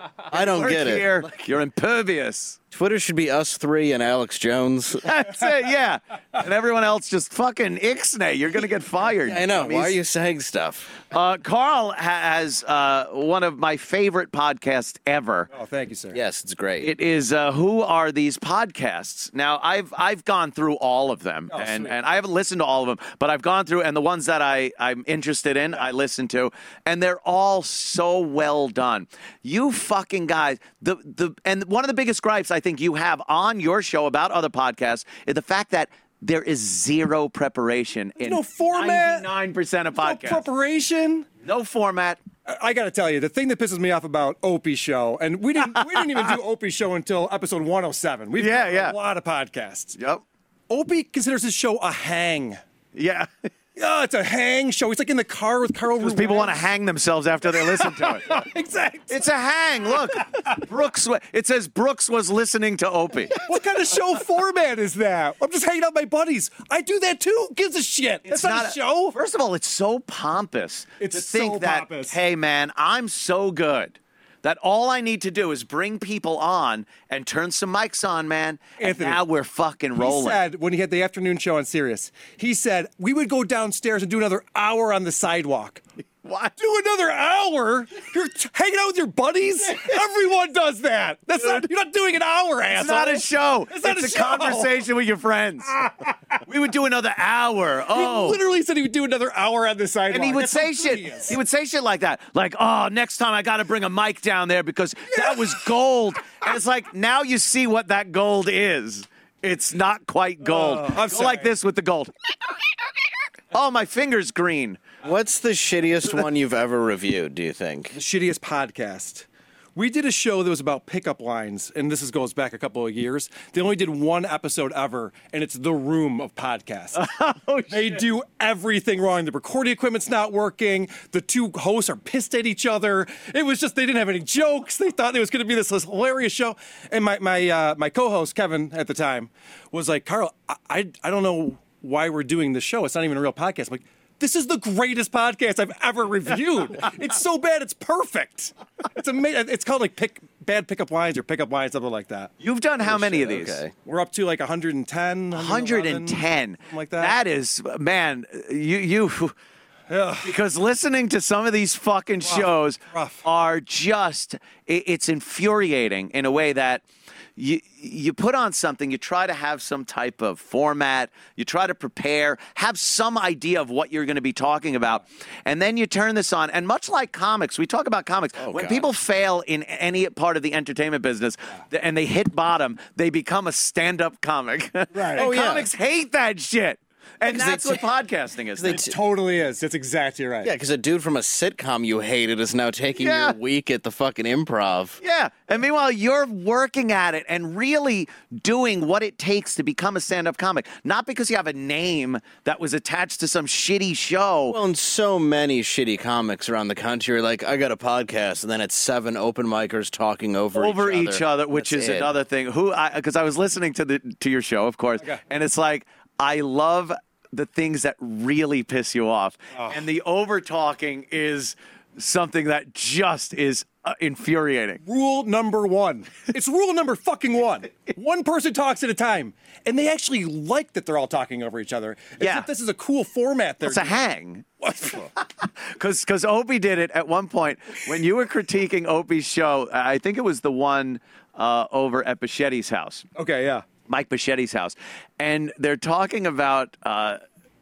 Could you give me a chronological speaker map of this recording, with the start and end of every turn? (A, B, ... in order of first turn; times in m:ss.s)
0:00.3-0:01.2 A
0:00.3-0:02.6 B
0:02.7-0:05.1 A
0:05.0-0:10.0 B
0:09.2-0:11.0 A
0:11.1-0:15.5 B
0:15.5-0:16.2 C
0:16.1-0:16.9 A
0:16.8-0:40.4 B
0:21.5-0:21.9 C
0:38.2-0:39.3 C
0:40.0-0:41.3 C
0:41.4-0:42.2 B
0:42.4-0:50.0 C
0:45.8-0:46.3 B
0:48.4-0:49.0 B
0:50.0-0:50.2 B
0:50.7-0:52.6 C
0:52.9-0:53.3 B
0:53.8-0:56.7 C
0:56.0-0:58.4 B
0:57.5-0:59.3 C
0:59.1-1:03.4 B
1:03.4-1:09.2 C
1:08.3-1:20.4 B
1:11.0-1:12.2 C
1:18.8-1:19.2 C
1:20.0-1:25.8 C
1:26.2-1:26.5 B
1:26.6-1:34.8 C
1:31.4-1:31.7 B
1:32.7-1:35.7 B
1:36.4-1:38.4 B
1:37.9-1:41.4 C
1:40.1-1:52.1 B
1:45.1-1:45.6 C
1:50.4-1:51.5 C
1:53.5-1:54.8 B
1:55.0-1:58.0 A
1:57.9-2:07.0 C
2:06.9-2:08.0 B
2:07.7-2:32.3 C
2:32.4-2:33.6 B
2:32.8-2:33.7 A
2:33.8-2:37.2 C
2:35.3-2:39.3 B
2:39.9-2:40.3 C
2:40.2-2:46.8 B
2:42.2-2:43.2 C
2:47.4-3:08.8 B
2:58.4-2:58.9 A
3:04.9-3:05.3 C
3:05.1-3:05.7 A
3:07.2-3:07.8 A
3:08.6-3:08.9 A
3:08.6-3:10.5 C
3:10.4-3:15.0 A
3:13.0-3:13.4 B
3:15.0-3:24.6 B
3:24.5-3:32.1 A
3:30.5-3:44.8 B
3:39.5-3:39.8 C
3:44.8-3:54.0 C
3:52.2-3:52.5 B
3:53.6-3:54.5 B
3:54.6-3:55.1 C
3:55.6-4:03.0 B
4:03.1-4:03.6 C
4:03.9-4:07.2 B